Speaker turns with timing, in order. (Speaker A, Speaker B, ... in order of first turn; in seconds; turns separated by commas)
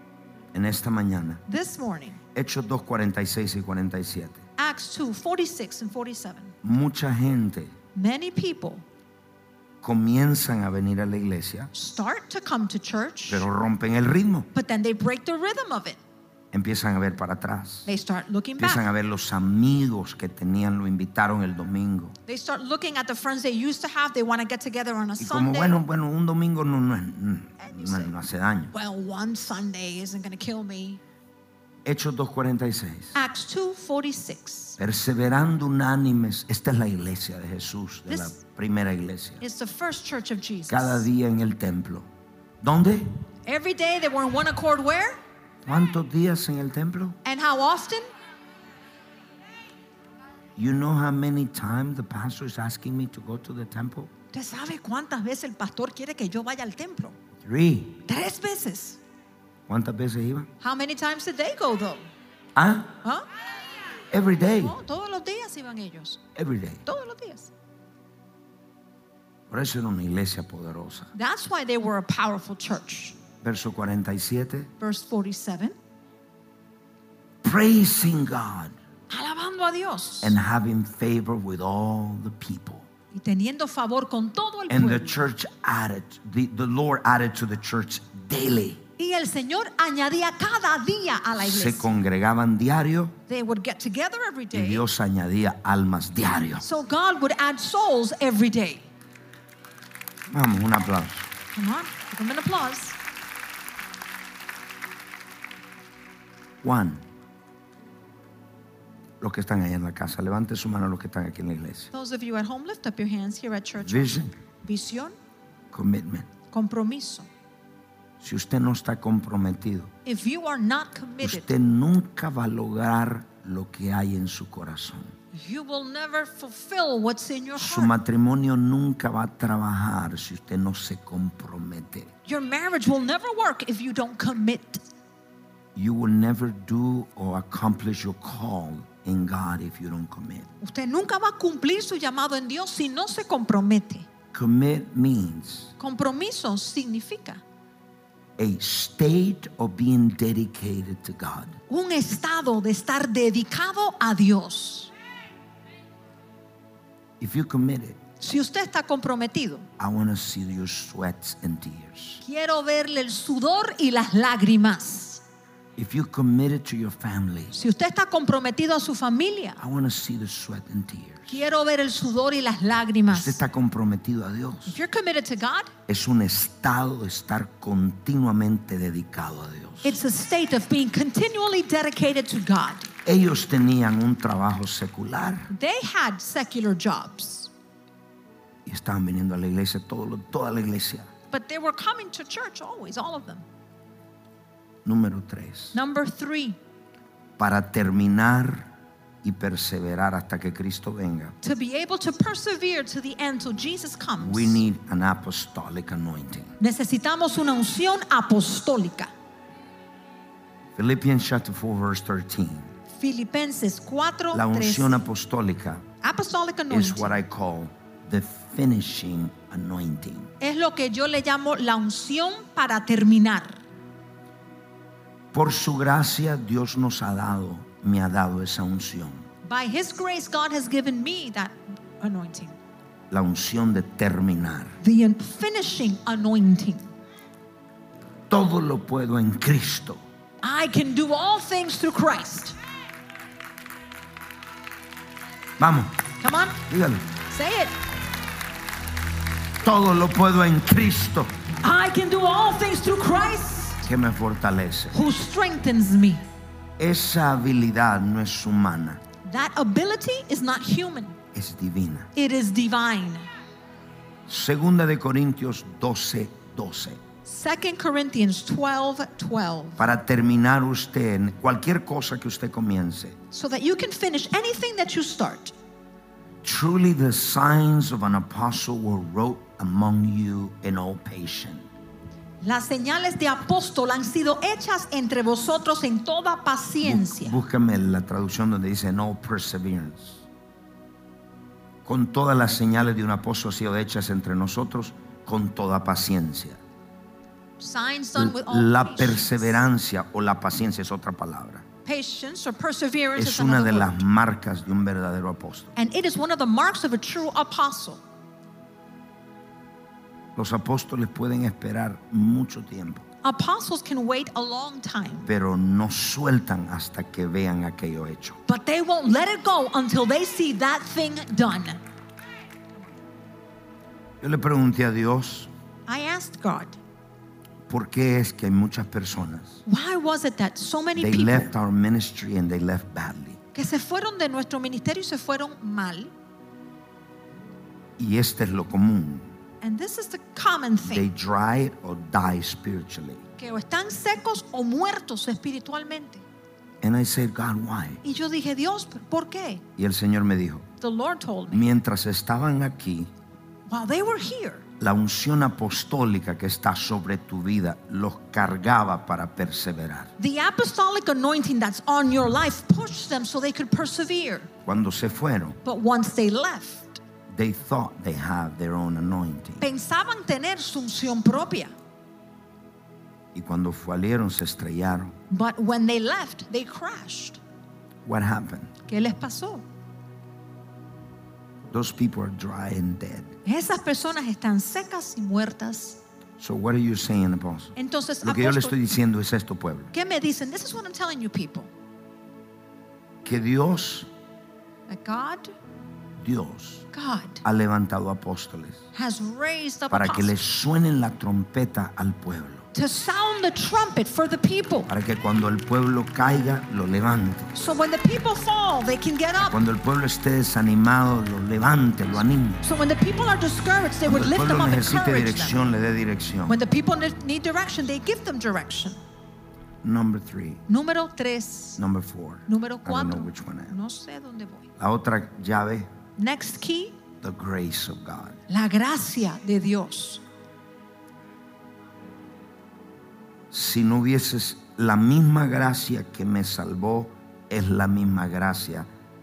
Speaker A: 0.5-1.4, Speaker B: 1.5-2.2, Speaker A: 2.3-4.4, Speaker B: 4.6-6.5, Speaker A: 6.6-7.7, Speaker B: 8.0-8.8, Speaker A: 9.8-11.7, Speaker B: 11.7-13.5, Speaker A: 13.3-14.5, Speaker B: 14.5-16.0, Speaker A: 16.5-17.9, Speaker B: 17.9-18.9, Speaker A: 18.6-22.1, Speaker B: 22.3-25.8, Speaker A: 25.2-28.7, Speaker B: 27.6-28.1, Speaker B: 28.7-31.0, Speaker A: 31.9-33.1, Speaker B: 33.1-34.8, Speaker A: 34.8-39.4, Speaker B: 38.1-38.4, Speaker B: 39.4-41.1, Speaker A: 40.7-42.1, Speaker A: 42.6-43.2, Speaker B: 43.5-45.2, Speaker A: 45.6-47.2, Speaker B: 47.2-48.1, Speaker A: 50.6-54.1, Speaker B: 54.3-57.2, Speaker A: 57.4-58.0, Speaker B: 58.1-59.0, Speaker A: 59.7-60.5, Speaker B: 60.6-62.1, Speaker A: 62.5-63.0, Speaker A: 64.1-64.8, Speaker B: 64.6-66.2, Speaker A: 66.3-66.8, Speaker B: 66.8-67.5, Speaker A: 69.5-71.1, Speaker B: 71.1-73.2, Speaker A: 73.4-74.7, Speaker B: 74.8-75.8, Speaker A: 77.4-78.8, Speaker B: 79.1-80.4, Speaker A: 80.2-82.9, Speaker B: 83.1-85.3, Speaker A: 84.7-88.8, Speaker B: 89.0-91.9, Speaker A: 91.4-93.2, Speaker B: 93.3-94.9, Speaker A: 94.5-96.7, Speaker B: 96.6-98.9, Speaker A: 100.3-101.3, Speaker B: 101.5-103.0, Speaker A: 106.6-107.0, Speaker A: 109.2-111.9, Speaker B: 111.9-115.2, Speaker A: 113.8-114.3, Speaker A: 115.7-116.3, Speaker B: 116.5-117.3, Speaker A: 118.2-119.9, Speaker B: 120.0-121.5, Speaker A: 121.2-125.1, Speaker B: 125.3-127.9, Speaker A: 127.6-132.1, Speaker B: 132.3-134.8, Speaker A: 135.8-140.5, Speaker B: 140.6-144.1, Speaker A: 144.3-145.7, Speaker B: 145.8-147.4, Speaker A: 148.4-151.6, Speaker B: 151.7-154.9, Speaker A: 157.2-158.0, Speaker B: 158.2-159.7, Speaker A: 159.8-162.2, Speaker B: 162.2-165.2, Speaker A: 165.8-167.6, Speaker B: 167.5-169.6, Speaker A: 169.6-171.4, Speaker B: 171.3-173.4, Speaker A: 173.1-174.8, Speaker B: 174.7-175.7, Speaker A: 175.9-180.0, Speaker B: 179.8-182.9, Speaker A: 183.1-185.5, Speaker B: 185.5-187.5, Speaker A: 188.7-191.1, Speaker B: 191.3-193.4, Speaker A: 194.8-195.8, Speaker B: 195.7-196.6, Speaker A: 197.4-198.7, Speaker A: 199.2-201.4, Speaker B: 201.4-204.6, Speaker A: 204.2-206.6, Speaker B: 206.6-209.1, Speaker A: 210.8-212.7, Speaker B: 213.0-215.0, Speaker A: 214.3-215.8, Speaker B: 216.0-217.2, Speaker A: 216.7-220.3, Speaker B: 220.4-223.6, Speaker A: 225.3-229.3, Speaker B: 229.4-232.6, Speaker A: 233.1-234.8, Speaker B: 234.8-236.9, Speaker A: 238.3-240.0, Speaker B: 240.4-242.6, Speaker A: 245.6-245.9, Speaker B: 246.2-246.6, Speaker A: 246.7-247.1, Speaker B: 247.3-247.7, Speaker A: 249.6-251.3, Speaker B: 251.6-253.9, Speaker A: 253.8-254.9, Speaker B: 254.9-256.2, Speaker A: 256.8-259.0, Speaker B: 259.2-261.2, Speaker A: 261.3-262.1, Speaker B: 262.1-263.3, Speaker A: 264.3-267.0, Speaker B: 267.2-269.9, Speaker A: 269.8-273.2, Speaker B: 273.3-275.5, Speaker A: 276.4-281.6, Speaker B: 282.4-287.4, Speaker A: 286.8-290.2, Speaker A: 291.9-296.6, Speaker B: 297.6-299.6, Speaker A: 298.1-301.6, Speaker B: 301.9-304.0, Speaker A: 303.2-305.7, Speaker B: 305.8-308.0, Speaker A: 310.4-313.1, Speaker B: 313.2-315.3, Speaker A: 315.3-318.4, Speaker B: 318.5-321.8, Speaker A: 324.2-325.5, Speaker B: 325.9-326.8, Speaker A: 327.7-329.6, Speaker B: 329.7-331.5, Speaker A: 331.0-333.4, Speaker B: 333.5-336.1, Speaker A: 338.0-339.3, Speaker B: 339.6-341.1, Speaker A: 340.9-343.2, Speaker B: 343.4-346.2, Speaker A: 346.8-348.0, Speaker B: 348.0-349.6, Speaker A: 349.8-350.7, Speaker B: 350.8-351.7, Speaker A: 351.5-353.1, Speaker B: 353.7-354.7, Speaker A: 354.8-360.1, Speaker B: 360.2-364.5, Speaker A: 364.6-365.6, Speaker B: 365.6-367.0, Speaker A: 367.3-369.6, Speaker B: 369.6-371.7, Speaker A: 373.3-375.1, Speaker B: 375.3-377.4, Speaker A: 378.1-378.7, Speaker B: 378.9-379.6, Speaker A: 381.7-383.4, Speaker B: 383.4-386.0, Speaker A: 386.4-389.9, Speaker B: 387.8-388.8, Speaker B: 389.9-391.7, Speaker A: 393.2-394.1, Speaker B: 394.9-395.5, Speaker A: 396.2-396.9, Speaker B: 396.9-397.4, Speaker A: 397.4-398.8, Speaker B: 398.9-400.3, Speaker A: 399.9-402.7, Speaker B: 402.7-404.9, Speaker A: 404.9-407.5, Speaker B: 407.6-409.6, Speaker A: 409.4-412.6, Speaker B: 412.6-415.7, Speaker A: 414.1-416.6, Speaker B: 416.5-419.0, Speaker A: 419.8-420.6, Speaker B: 420.7-421.8, Speaker A: 421.8-423.7, Speaker B: 422.5-424.7, Speaker A: 424.8-425.9, Speaker B: 426.2-427.0, Speaker A: 427.2-428.4, Speaker B: 428.5-430.2, Speaker A: 433.5-438.9